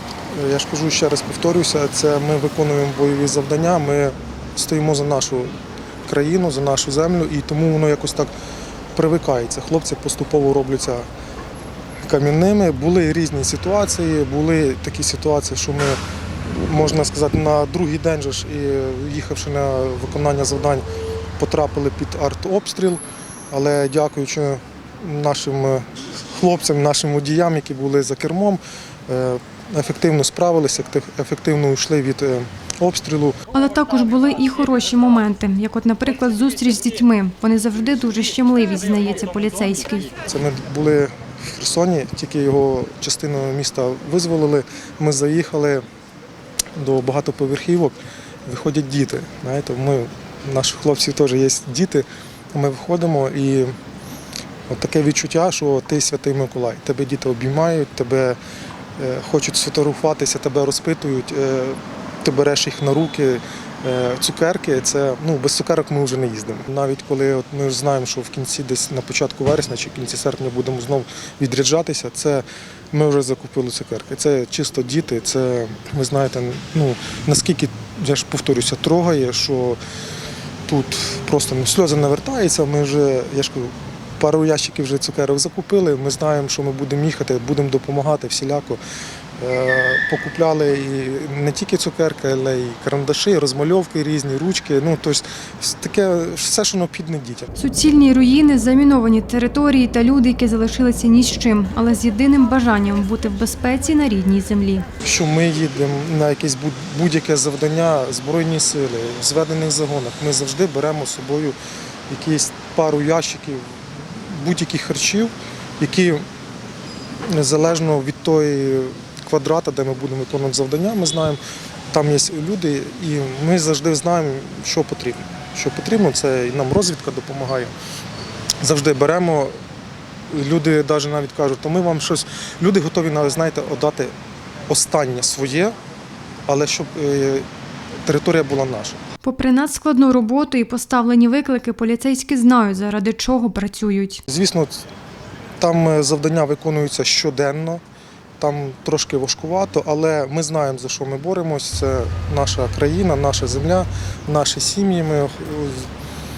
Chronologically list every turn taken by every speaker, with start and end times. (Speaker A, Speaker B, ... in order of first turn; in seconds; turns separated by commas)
Speaker A: 0.3-5.5, Speaker A: 6.1-8.3, Speaker A: 8.9-11.1, Speaker A: 12.1-20.9, Speaker A: 21.4-33.4, Speaker B: 33.5-40.2, Speaker A: 40.3-45.8, Speaker A: 46.8-53.8, Speaker A: 54.7-58.4, Speaker A: 59.0-79.8, Speaker A: 80.7-88.8, Speaker A: 89.4-97.5, Speaker B: 97.6-104.9, Speaker A: 105.0-111.6, Speaker A: 112.1-116.2, Speaker A: 117.3-121.4, Speaker A: 121.9-127.7, Speaker A: 128.6-129.5, Speaker A: 130.3-134.1, Speaker A: 134.7-135.8, Speaker A: 136.5-137.5, Speaker A: 138.1-139.0, Speaker B: 139.2-144.2, Speaker A: 144.3-144.9, Speaker A: 145.6-147.8, Speaker A: 148.4-155.9